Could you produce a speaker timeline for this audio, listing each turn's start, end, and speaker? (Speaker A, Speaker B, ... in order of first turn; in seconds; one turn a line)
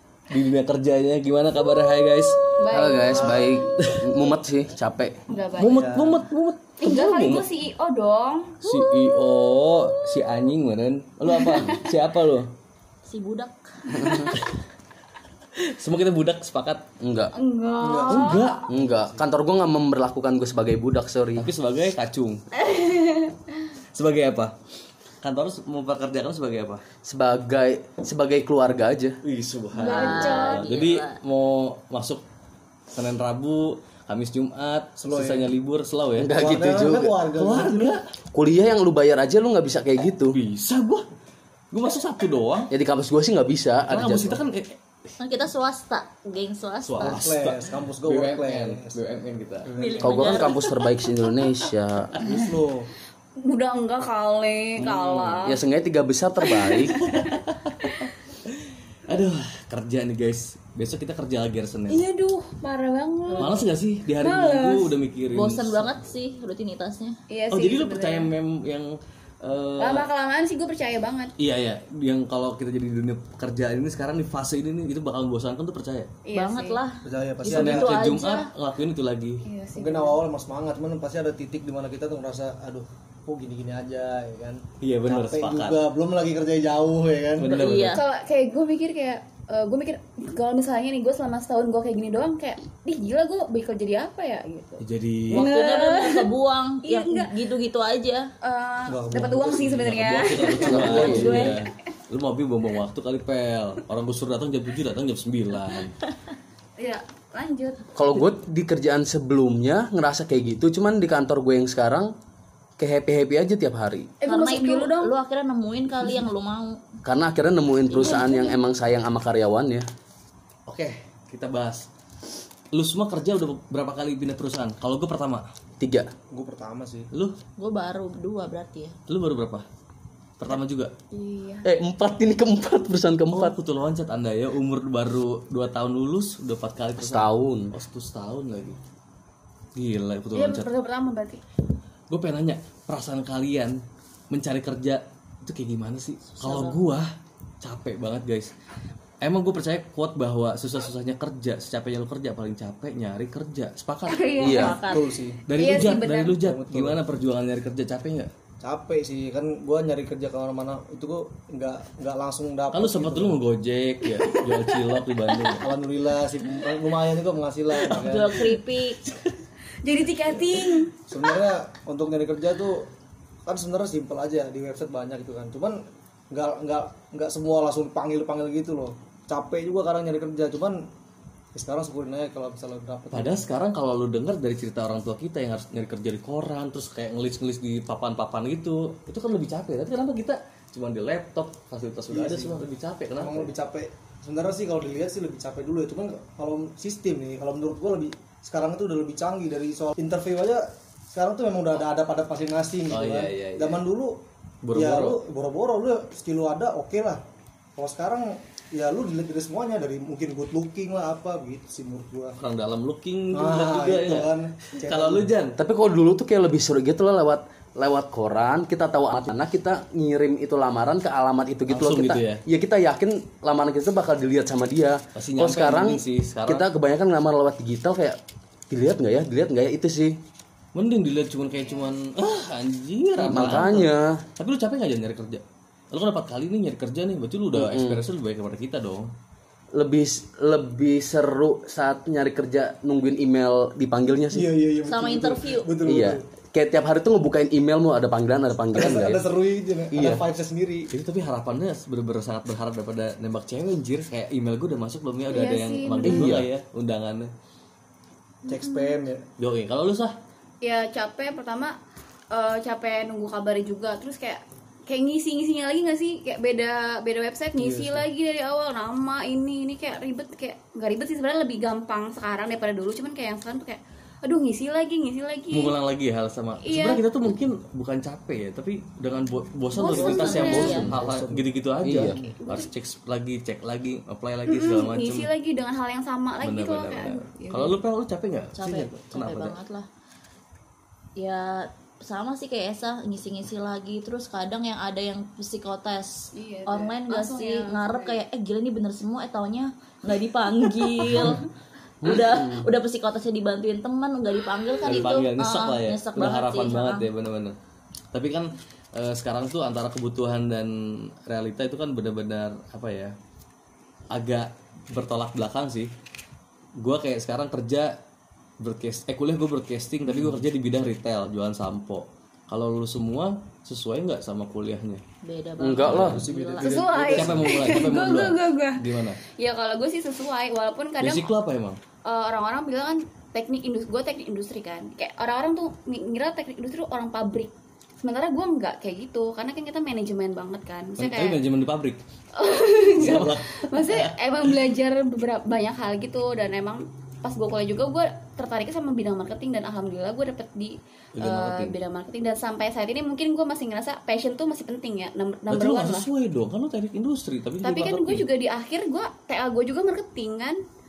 Speaker A: 0.3-2.5
Speaker B: 2.5-3.7
Speaker C: 2.7-5.3
Speaker D: 3.0-3.7
Speaker A: 3.8-4.1
Speaker B: 5.3-5.8
Speaker A: 5.5-7.5
Speaker D: 5.6-6.2
Speaker B: 6.8-10.5
Speaker A: 8.6-12.5
Speaker B: 11.4-11.8
Speaker E: 13.1-14.3
Speaker C: 13.9-14.3
Speaker B: 14.0-14.3
Speaker A: 14.3-14.6
Speaker A: 15.5-16.9
Speaker C: 17.0-17.3
Speaker B: 17.3-18.5
Speaker D: 17.8-18.5
Speaker A: 18.1-19.1
Speaker C: 18.7-21.5
Speaker A: 21.4-22.4
Speaker B: 22.6-23.3
Speaker A: 23.9-24.6
Speaker A: 25.2-26.8
Speaker C: 27.0-29.2
Speaker A: 29.2-32.2
Speaker B: 29.8-30.7
Speaker E: 29.8-31.2
Speaker A: 32.9-38.1
Speaker D: 35.0-35.5
Speaker C: 36.2-37.1
Speaker D: 36.3-38.0
Speaker C: 38.3-40.4
Speaker A: 40.3-41.1
Speaker A: 41.7-42.7
Speaker C: 42.7-44.4
Speaker A: 43.9-44.8
Speaker E: 45.2-47.2
Speaker A: 46.8-49.7
Speaker D: 47.0-49.0
Speaker D: 49.6-50.4
Speaker E: 49.8-50.7
Speaker C: 50.0-52.2
Speaker D: 52.2-52.9
Speaker B: 52.2-52.5
Speaker B: 53.4-55.6
Speaker A: 54.8-55.5
Speaker C: 55.5-57.0
Speaker B: 56.4-57.9
Speaker A: 56.9-62.0
Speaker B: 61.9-63.6
Speaker E: 63.3-63.6
Speaker A: 63.4-66.0
Speaker B: 64.2-64.9
Speaker E: 65.3-67.2
Speaker B: 67.3-68.3
Speaker A: 67.5-70.1
Speaker B: 69.8-71.3
Speaker A: 71.4-76.1
Speaker B: 76.2-76.8
Speaker E: 76.3-78.5
Speaker D: 77.0-78.1
Speaker A: 77.5-79.4
Speaker B: 79.4-80.2
Speaker D: 79.8-87.6
Speaker A: 84.8-85.8
Speaker A: 87.4-88.0
Speaker E: 87.5-88.0
Speaker B: 87.9-97.3
Speaker A: 94.8-95.5
Speaker E: 95.3-98.3
Speaker B: 98.4-101.5
Speaker D: 98.9-100.0
Speaker A: 99.8-106.0
Speaker D: 100.6-101.1
Speaker C: 100.6-101.5
Speaker E: 100.8-101.6
Speaker B: 106.8-107.9
Speaker C: 107.9-112.1
Speaker C: 112.8-114.1
Speaker B: 114.2-115.1
Speaker E: 114.2-116.8
Speaker C: 117.0-119.8
Speaker E: 117.9-118.5
Speaker A: 120.7-121.9
Speaker A: 122.7-125.5
Speaker C: 125.8-126.1
Speaker D: 126.3-127.1
Speaker E: 127.6-128.9
Speaker A: 129.1-129.7
Speaker A: 130.4-130.9
Speaker B: 131.1-131.7
Speaker C: 131.6-133.5
Speaker A: 133.3-138.8
Speaker C: 137.0-137.7
Speaker A: 139.7-140.7
Speaker B: 140.3-141.4
Speaker A: 142.1-147.1
Speaker E: 146.3-146.8
Speaker A: 147.6-148.5
Speaker A: 149.2-154.7
Speaker B: 154.1-154.7
Speaker C: 154.4-154.8
Speaker E: 154.4-155.1
Speaker D: 154.8-155.9
Speaker A: 155.5-158.3
Speaker B: 155.5-156.4
Speaker D: 156.4-157.0
Speaker D: 158.6-163.4
Speaker A: 162.7-165.7
Speaker D: 165.6-168.5
Speaker E: 167.9-169.0
Speaker A: 169.0-169.3
Speaker B: 169.8-170.9
Speaker D: 171.1-172.9
Speaker D: 173.4-180.9
Speaker D: 181.5-183.4
Speaker A: 183.1-193.5
Speaker D: 192.1-192.6
Speaker D: 193.2-204.2
Speaker A: 202.9-203.8
Speaker A: 204.6-205.2
Speaker D: 204.7-207.2
Speaker D: 207.8-212.4
Speaker A: 212.4-215.6
Speaker D: 213.3-215.3
Speaker C: 215.6-228.2
Speaker A: 221.7-222.4
Speaker A: 225.1-226.7
Speaker C: 228.7-230.2
Speaker A: 230.7-239.1
Speaker C: 233.2-234.2
Speaker C: 237.5-238.0
Speaker C: 239.7-244.5
Speaker D: 244.3-246.2
Speaker E: 244.8-245.7
Speaker C: 245.8-249.2
Speaker D: 248.7-250.9
Speaker C: 249.9-250.2
Speaker A: 250.9-257.3
Speaker B: 255.3-256.3
Speaker C: 256.0-256.5
Speaker D: 258.5-259.2
Speaker B: 258.5-258.9
Speaker A: 259.4-260.1
Speaker B: 260.6-261.8
Speaker B: 262.3-275.8
Speaker D: 267.6-268.1
Speaker A: 275.5-285.3
Speaker B: 276.6-277.0
Speaker B: 279.7-280.8
Speaker E: 279.8-280.9
Speaker D: 280.0-281.5
Speaker C: 281.8-282.2
Speaker D: 282.1-282.4
Speaker B: 282.3-282.7
Speaker B: 284.5-287.8
Speaker A: 286.4-289.6
Speaker E: 288.6-289.9
Speaker E: 291.1-301.5
Speaker B: 296.3-298.2
Speaker E: 302.0-307.1
Speaker C: 302.0-302.7
Speaker A: 304.9-307.6
Speaker A: 308.1-313.1
Speaker A: 314.1-315.9
Speaker A: 316.8-318.0
Speaker A: 318.6-325.0
Speaker E: 325.2-326.8
Speaker C: 325.6-326.2
Speaker A: 325.8-326.3
Speaker D: 326.0-327.9
Speaker B: 326.6-331.3
Speaker A: 327.1-329.2
Speaker A: 331.0-331.8
Speaker B: 332.0-337.5
Speaker B: 338.0-341.4
Speaker A: 341.0-342.0
Speaker B: 342.4-356.1
Speaker A: 342.9-344.1
Speaker A: 351.1-351.8
Speaker A: 355.5-358.2
Speaker B: 357.6-360.6